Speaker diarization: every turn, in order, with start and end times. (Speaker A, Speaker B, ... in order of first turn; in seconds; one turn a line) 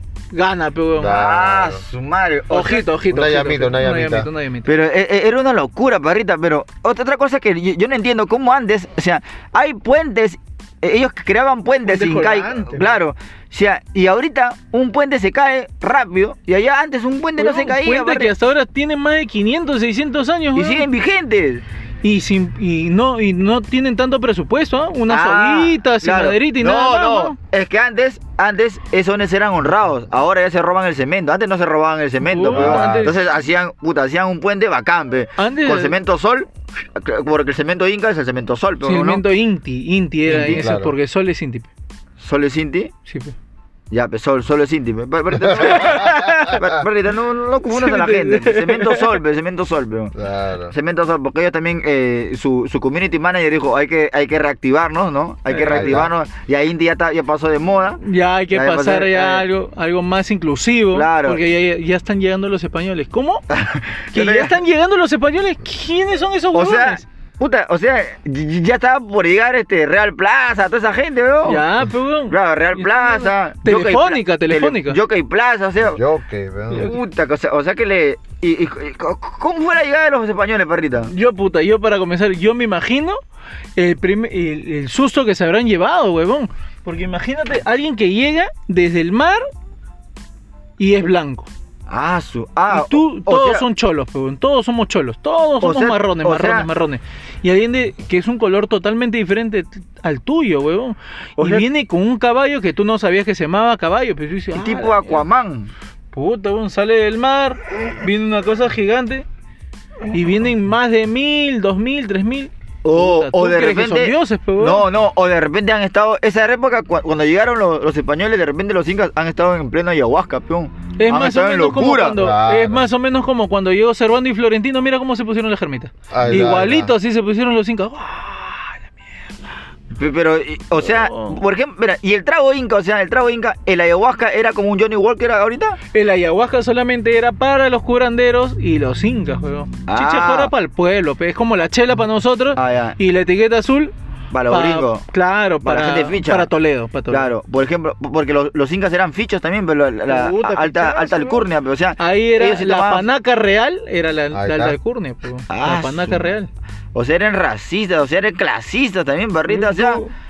Speaker A: 0.3-1.2
Speaker B: 0.9-1.8
Speaker C: 1.1-2.9
Speaker A: 2.5-4.7
Speaker B: 3.1-4.3
Speaker C: 4.7-18.3
Speaker A: 11.8-12.9
Speaker A: 17.4-20.9
Speaker C: 20.6-21.6
Speaker A: 22.0-27.4
Speaker C: 25.1-39.2
Speaker A: 32.2-33.2
Speaker B: 32.5-33.0
Speaker A: 35.4-36.0
Speaker A: 38.8-41.7
Speaker C: 40.3-40.7
Speaker B: 40.4-40.9
Speaker C: 42.2-42.9
Speaker A: 43.0-43.4
Speaker C: 43.9-50.1
Speaker A: 45.6-46.6
Speaker A: 47.7-49.2
Speaker B: 50.1-50.7
Speaker C: 50.7-58.0
Speaker A: 55.5-56.0
Speaker B: 55.7-56.1
Speaker A: 58.0-63.4
Speaker C: 58.5-59.5
Speaker C: 60.9-61.4
Speaker C: 63.5-64.6
Speaker A: 64.1-67.0
Speaker C: 66.5-71.7
Speaker A: 71.4-75.0
Speaker C: 72.3-76.0
Speaker B: 75.9-76.9
Speaker C: 76.7-81.1
Speaker A: 81.1-83.2
Speaker A: 83.8-89.5
Speaker A: 90.8-91.5
Speaker C: 91.9-93.7
Speaker A: 92.7-105.2
Speaker C: 95.6-96.7
Speaker C: 101.4-101.7
Speaker C: 104.5-105.7
Speaker A: 106.1-109.3
Speaker A: 110.1-114.9
Speaker C: 112.8-122.2
Speaker A: 121.0-129.1
Speaker B: 122.2-122.9
Speaker B: 126.1-126.9
Speaker C: 129.9-135.8
Speaker A: 130.8-131.4
Speaker A: 135.9-143.9
Speaker C: 139.9-140.5
Speaker C: 142.6-143.0
Speaker C: 144.3-145.1
Speaker A: 144.5-147.3
Speaker C: 145.6-146.5
Speaker C: 147.1-153.1
Speaker A: 150.1-151.4
Speaker A: 152.0-156.5
Speaker B: 154.3-154.8
Speaker C: 155.5-156.3
Speaker C: 156.9-160.0
Speaker A: 159.5-160.1